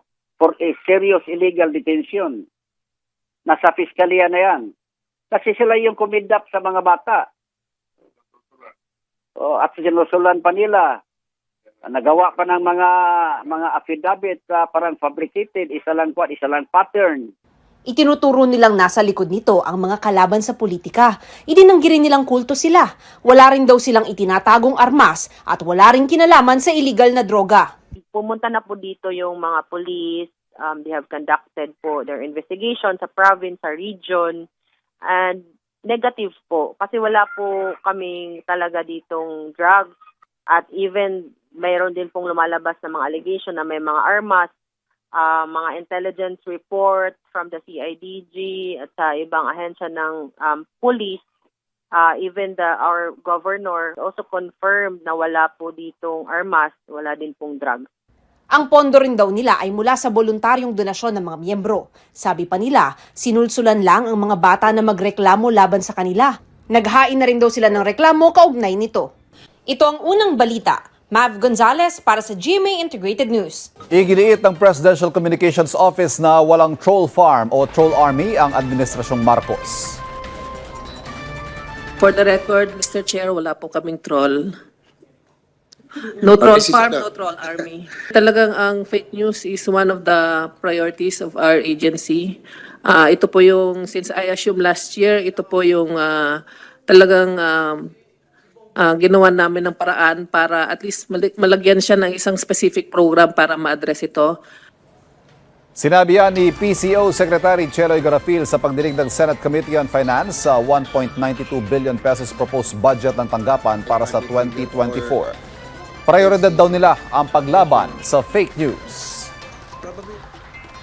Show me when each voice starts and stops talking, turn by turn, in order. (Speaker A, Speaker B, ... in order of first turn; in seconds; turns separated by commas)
Speaker A: 0.4-2.4, Speaker A: 3.5-4.7, Speaker A: 5.3-7.2, Speaker A: 9.4-10.9, Speaker A: 11.9-12.9, Speaker A: 13.5-17.3, Speaker B: 17.9-27.7, Speaker C: 28.0-34.5, Speaker C: 35.0-39.9, Speaker C: 40.5-44.5, Speaker C: 45.1-51.2, Speaker C: 51.9-57.9, Speaker B: 58.5-69.1, Speaker B: 69.7-73.7, Speaker D: 73.9-80.0, Speaker E: 82.0-84.5, Speaker E: 86.2-97.9, Speaker E: 98.8-104.3, Speaker D: 105.8-115.3, Speaker D: 116.1-119.3